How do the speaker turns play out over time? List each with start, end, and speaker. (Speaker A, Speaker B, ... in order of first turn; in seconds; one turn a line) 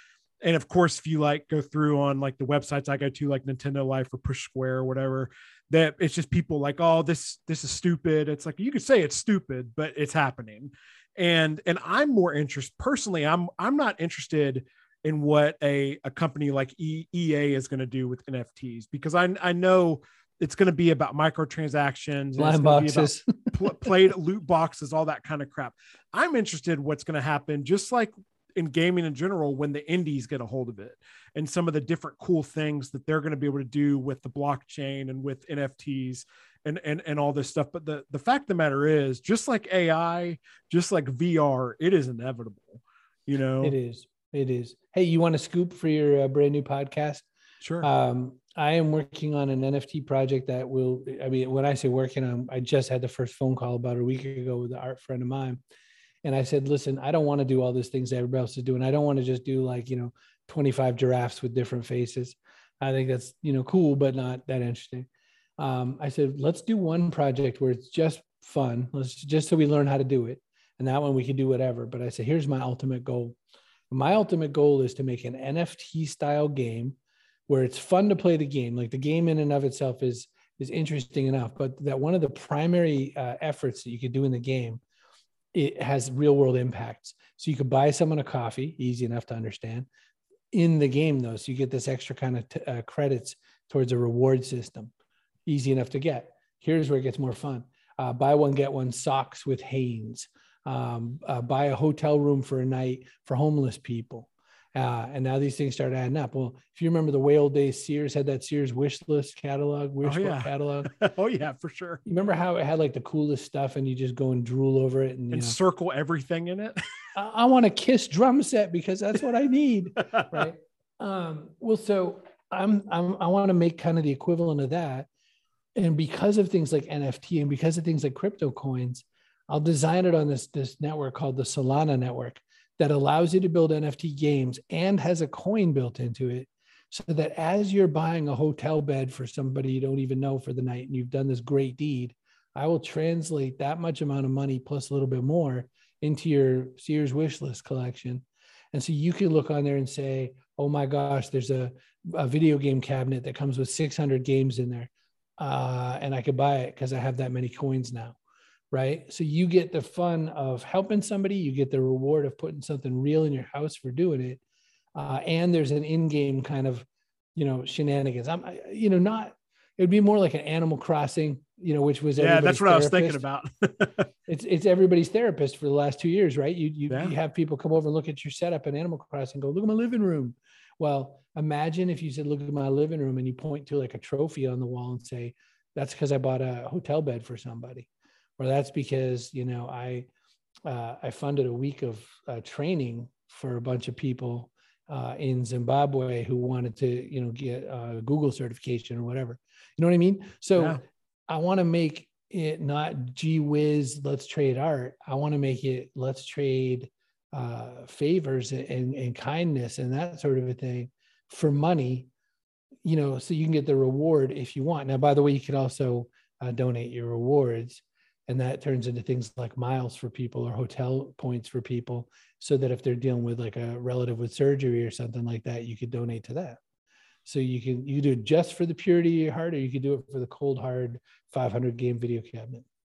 Speaker A: 0.4-43.8
Speaker B: 22.4-23.9
Speaker B: 43.6-47.2
Speaker A: 47.6-47.9
Speaker B: 47.8-55.6
Speaker B: 56.2-73.4
Speaker B: 73.9-77.0
Speaker B: 77.5-84.8
Speaker B: 85.5-89.9
Speaker B: 90.5-94.9
Speaker B: 95.5-110.9
Speaker A: 110.0-112.0
Speaker B: 112.0-115.5
Speaker A: 115.3-116.8
Speaker B: 117.1-125.1
Speaker A: 120.0-120.5
Speaker B: 125.7-158.2
Speaker B: 158.7-164.4
Speaker B: 164.9-173.2
Speaker A: 172.2-174.1
Speaker B: 174.3-190.1
Speaker B: 190.7-212.1
Speaker B: 212.8-226.6
Speaker B: 227.2-232.6